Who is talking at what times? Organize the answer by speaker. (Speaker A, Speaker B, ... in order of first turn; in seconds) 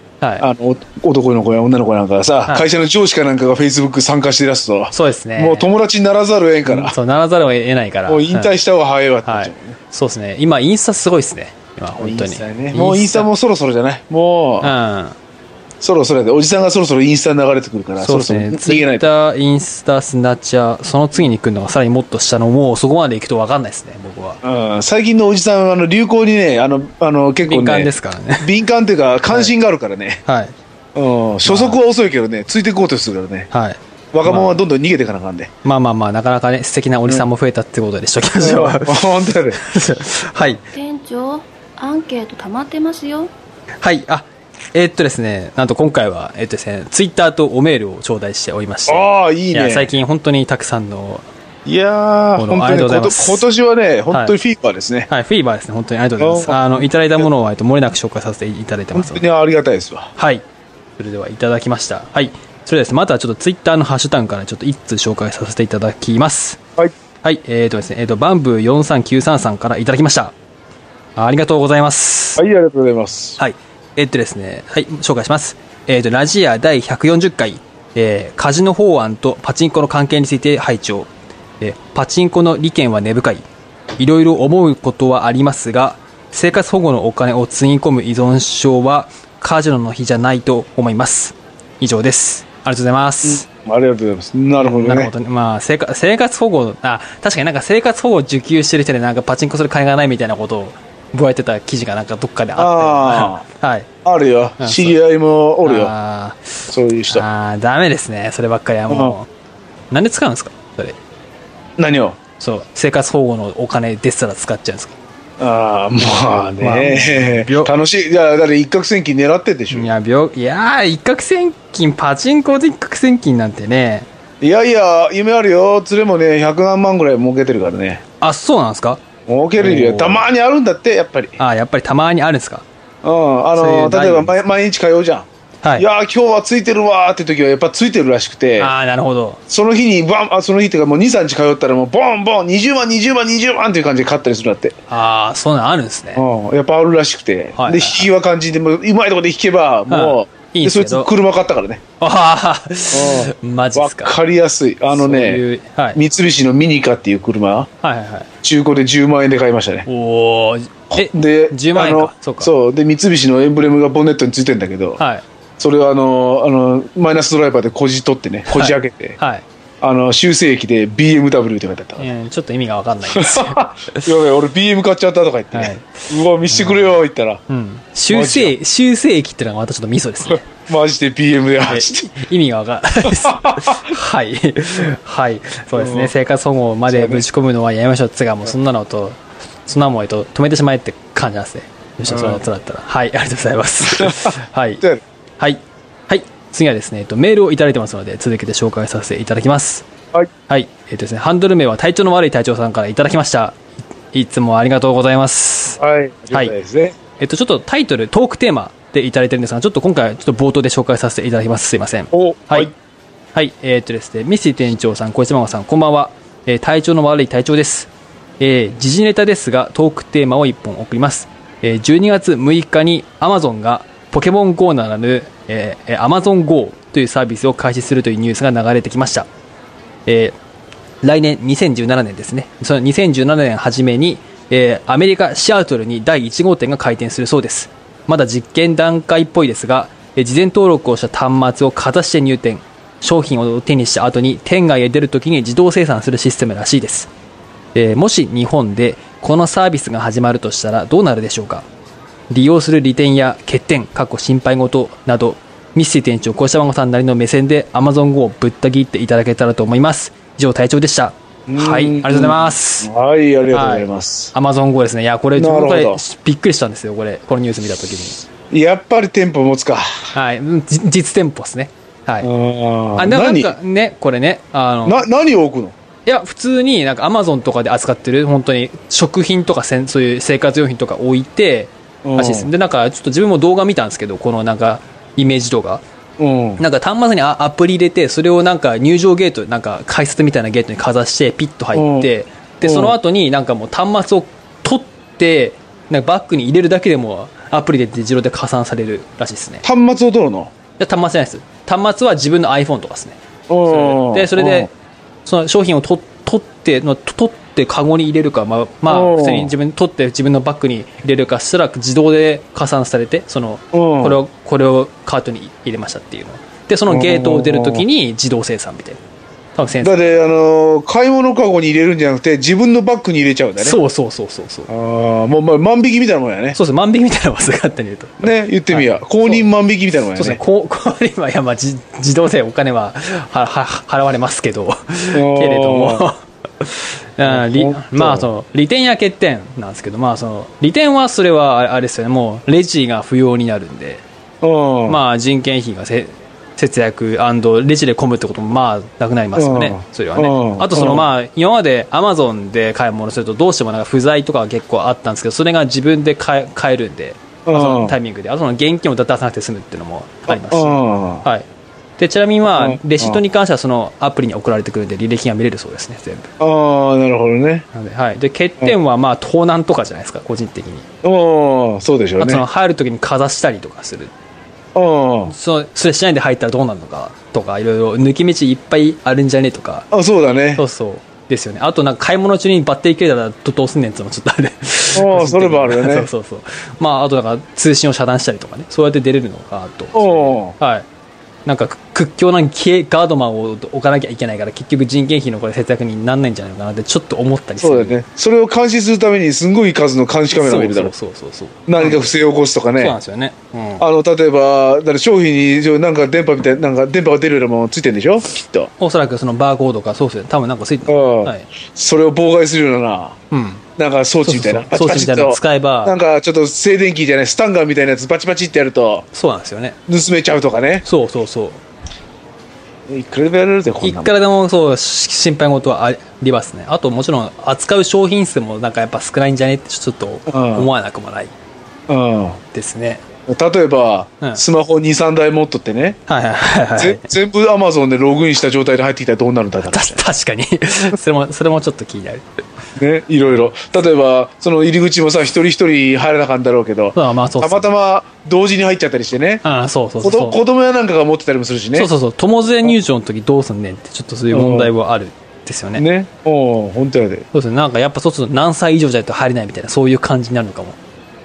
Speaker A: 0.2-0.5, 4.9-5.7, 6.7-8.5, 9.2-13.3, 14.6-15.2, 18.0-24.4, 27.4-28.5, 30.2-30.5, 31.4-31.8, 33.5-34.6, 35.6-40.6, 43.8-51.2, 52.4-53.4, 54.1-54.4, 55.1-59.2, 60.2-60.4, 61.0-66.6, 67.2-70.3, 71.2-72.4, 73.4-83.4, 84.0-93.5, 94.6-103.9, 104.6-105.0, 105.6-106.6, 107.1-109.3, 109.9-111.0, 112.4-115.0, 116.6-117.7, 119.7-124.1, 128.2-129.0, 129.6-130.3, 131.4-132.7, 133.6-134.3, 138.6-139.4, 144.9-146.2, 147.6-148.1, 149.9-151.1, 152.0-154.1, 154.9-156.0, 157.8-158.3, 159.8-162.5, 165.0-165.2, 168.5-169.4, 172.0-174.1, 175.5-176.9, 177.5-180.5, 181.7-194.8, 195.4-199.9, 200.5-203.6, 204.1-205.8, 207.2-212.7, 213.3-229.3, 230.1-230.3, 231.0-247.1, 247.7-251.7, 252.3-262.9, 263.5-268.2, 270.1-272.3, 273.0-275.0, 276.1-285.8, 286.6-299.6, 300.8-304.7, 305.2-319.0, 319.6-320.2, 323.6-324.7, 326.5-329.4, 330.1-344.0, 344.9-361.5, 362.0-366.3, 367.7-370.9, 372.2-374.1, 375.3-379.9, 380.6-390.9, 391.4-398.0, 400.3-402.1, 402.8-403.8, 408.8-411.5, 413.3-413.6, 414.2-415.9, 419.1-419.8, 420.8-421.6, 423.8-431.3, 432.5-433.0, 436.1-437.1, 439.6-442.2, 446.9-447.7, 449.4-450.4, 451.7-455.8, 457.3-460.8
Speaker B: 0.4-7.0, 8.1-9.8, 12.0-14.7, 15.8-19.1, 24.4-30.2, 30.9-33.5, 34.1-35.5, 38.4-39.6, 48.9-49.9, 51.6-55.1, 56.2-57.3, 58.9-60.1, 72.4-73.4, 93.2-95.1, 102.6-103.4, 104.0-105.9, 106.7-107.2, 108.9-109.2, 111.8-112.2, 115.4-119.9, 124.4-128.0, 129.3-131.3, 133.0-138.7, 139.5-144.8, 146.2-151.8, 152.9-155.4, 155.9-157.7, 158.4-159.8, 160.9-165.0, 165.6-169.2, 169.8-172.1, 173.1-177.4, 178.1-178.6, 180.3-182.1, 183.0-183.8, 185.8-186.1, 186.9-187.2, 192.1-192.4, 193.9-195.0, 205.8-206.9, 212.1-212.7, 261.5-264.3, 265.4-266.0, 268.5-269.9, 272.2-273.6, 274.9-275.8, 282.0-282.5, 286.2-286.6, 291.7-292.1, 292.6-292.9, 299.6-300.5, 303.5-304.7, 308.9-309.5, 313.7-314.2, 316.9-317.8, 319.8-323.8, 324.7-326.6, 328.2-330.4, 335.1-336.1, 337.2-338.3, 344.4-345.0, 349.4-351.1, 357.4-357.9, 360.3-361.2, 362.5-363.2, 366.4-367.6, 371.0-372.4, 374.7-375.3, 379.9-380.6, 384.9-386.1, 389.9-390.5, 397.6-400.9, 401.7-402.9, 403.8-408.7, 410.9-413.2, 413.8-419.1, 419.9-420.8, 422.9-424.1, 430.3-430.7, 431.9-432.4, 433.3-436.0, 436.8-440.0, 442.8-449.4, 450.0-451.9, 454.3-454.7, 455.8-457.2
Speaker C: 40.7-43.3